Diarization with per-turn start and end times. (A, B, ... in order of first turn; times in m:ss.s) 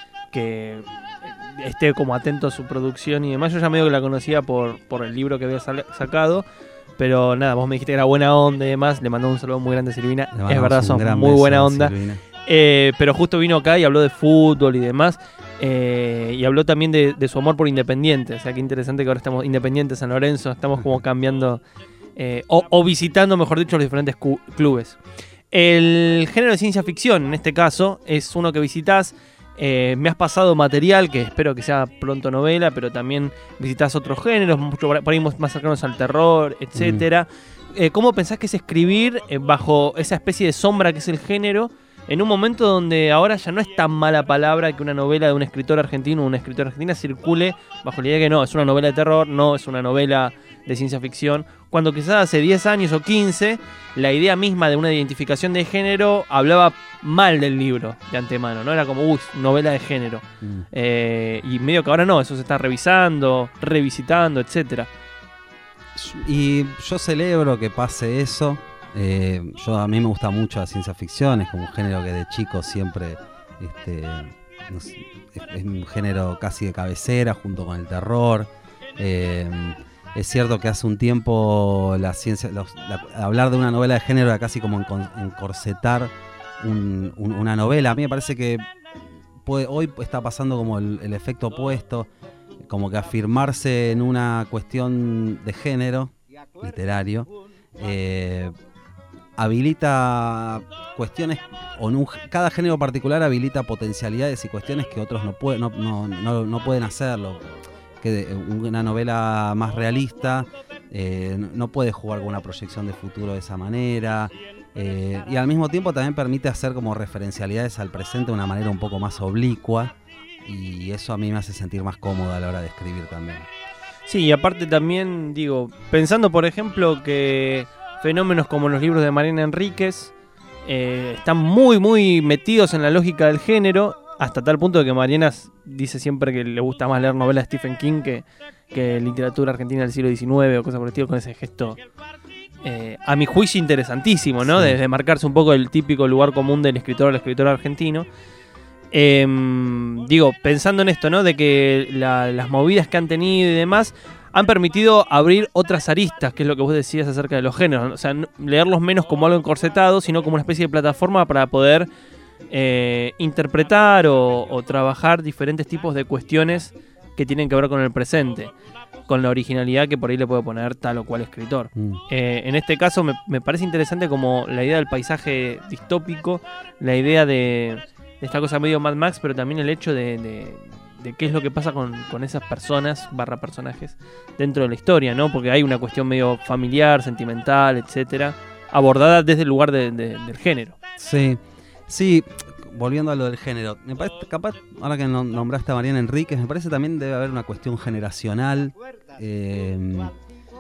0:00.3-0:06.4 A
0:07.0-0:11.9 A
0:10.3-0:12.2 B
0:12.5-0:21.6 A
0:22.2-0:25.0 A
0:25.5-1:04.9 A
0:36.8-0:37.1 B
1:00.4-1:00.7 B
1:06.0-1:32.1 B
1:32.6-1:38.5 B
1:39.4-2:03.5 B
2:04.1-2:10.1 A
2:10.6-2:21.8 A
2:22.6-2:28.1 A
2:24.4-2:24.8 B
2:28.9-2:41.9 A
2:42.5-2:48.5 A
2:49.1-3:10.8 A
2:51.8-2:52.0 B
3:11.0-3:20.2 B